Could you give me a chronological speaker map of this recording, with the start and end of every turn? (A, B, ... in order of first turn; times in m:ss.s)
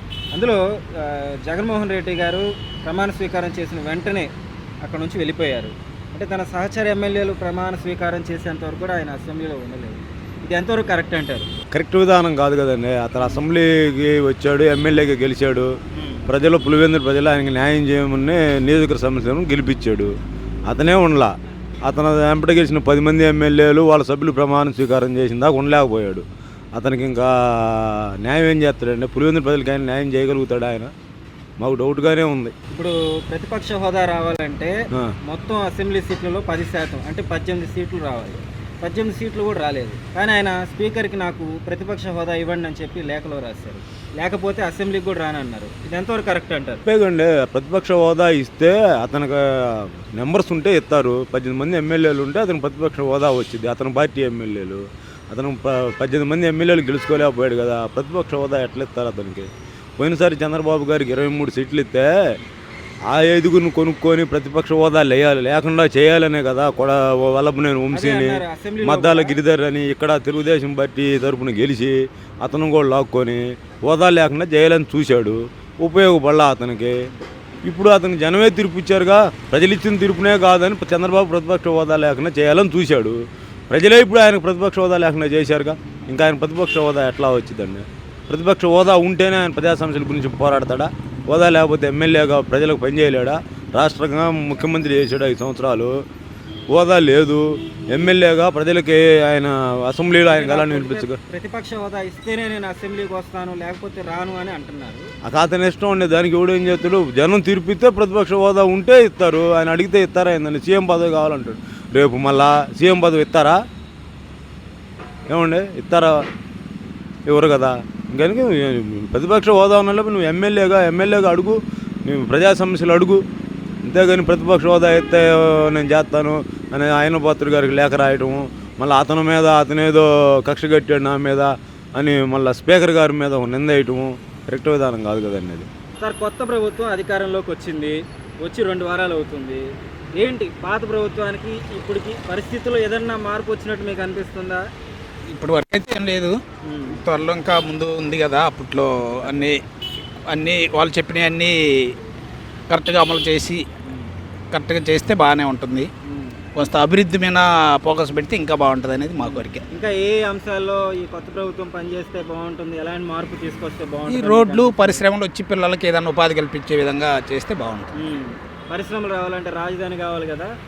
0:00.3-0:04.3 A
0:04.8-0:11.5 A
0:11.7-0:15.7 B
0:16.3-0:20.1 B
0:20.7-0:21.3 B
0:21.8-0:30.9 B
0:31.6-0:32.5 B
0:32.7-0:34.7 A
0:35.2-0:46.8 A
0:46.8-0:59.5 B
1:00.0-1:02.1 B
1:03.1-1:17.0 B
1:07.9-1:09.4 A
1:17.6-1:35.9 B
1:36.7-1:41.2 B
1:40.3-1:45.1 A
1:45.2-1:53.6 B
1:55.3-1:56.1 B
1:57.2-2:03.2 B
2:03.8-2:15.7 B
2:16.0-2:19.6 A
2:20.1-2:24.6 A
2:25.3-2:26.4 C
2:26.6-2:27.0 A
2:26.9-2:29.6 C
2:30.3-2:31.9 C
2:32.7-2:33.6 C
2:34.5-2:35.9 C
2:36.0-2:36.3 A
2:36.5-2:39.6 C
2:39.2-2:45.0 A
2:44.1-2:48.0 C
2:47.9-2:50.5 A